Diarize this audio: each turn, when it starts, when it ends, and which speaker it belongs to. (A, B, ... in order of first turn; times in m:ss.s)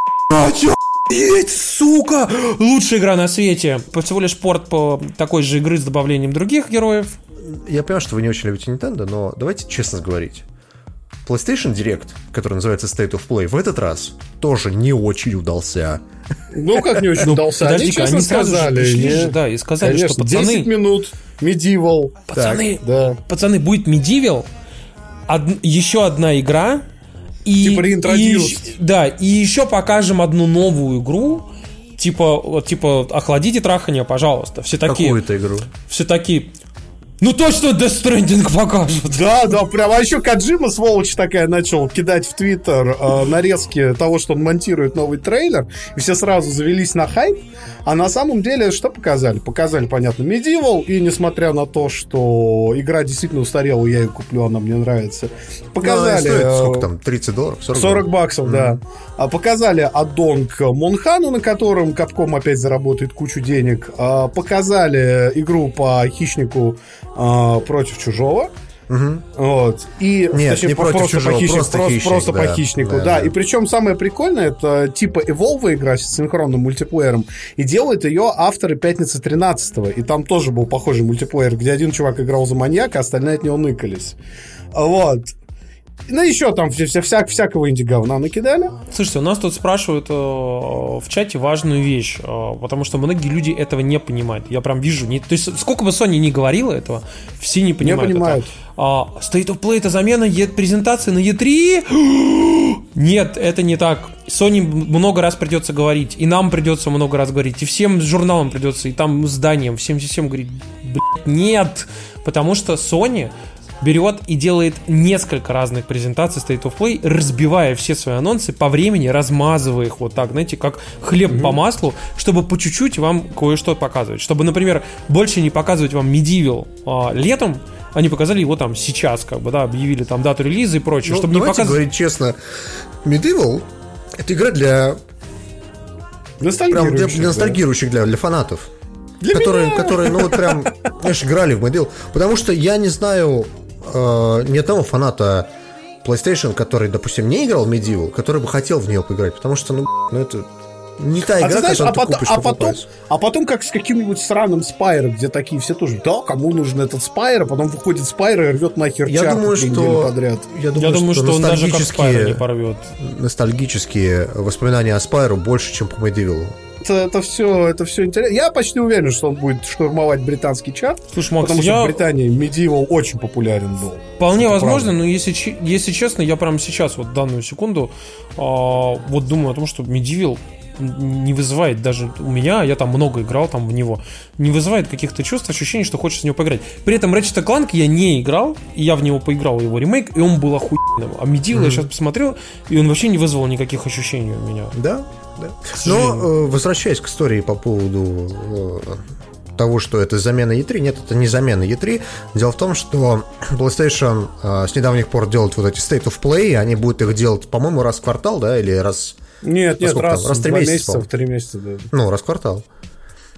0:00.3-0:07.2 A
0:07.4-0:10.4 B
0:11.3-0:16.0 B
0:16.5-0:22.2 C
0:16.8-0:17.1 B
0:17.2-0:20.7 A
0:22.3-0:24.5 A
0:22.4-0:22.6 B
0:22.8-0:23.2 C
0:25.3-0:26.8 A
0:27.4-0:31.5 A
0:27.6-0:28.7 C
0:32.0-0:35.2 A
0:34.9-0:35.7 B
0:35.8-0:36.5 A
0:37.2-0:39.2 A
0:39.1-0:56.9 C
0:55.8-0:58.8 B
0:57.7-1:08.5 C
1:08.9-1:09.2 B
1:09.4-1:24.2 C
1:10.3-1:13.4 B
1:24.7-1:25.3 C
1:26.1-1:28.8 C
1:28.9-2:11.8 A
1:37.8-1:38.5 C
2:01.3-2:01.6 C
2:11.0-2:12.4 B
2:13.0-2:13.7 B
2:14.2-2:15.0 B
2:16.4-2:17.6 C
2:16.7-2:18.7 B
2:19.2-2:20.7 C
2:19.3-2:25.5 B
2:26.0-2:32.9 B
2:31.4-2:40.5 C
2:39.1-2:42.4 B
2:40.8-2:42.9 A
2:43.0-2:46.6 B
2:46.8-2:55.0 C
2:51.1-2:52.0 A
2:54.2-3:14.8 A
3:11.5-3:11.9 B
3:14.8-3:19.0 B
3:15.7-3:16.3 A
3:19.6-3:29.2 B
3:29.4-3:31.9 C
3:29.8-3:31.1 B
3:31.9-3:32.6 B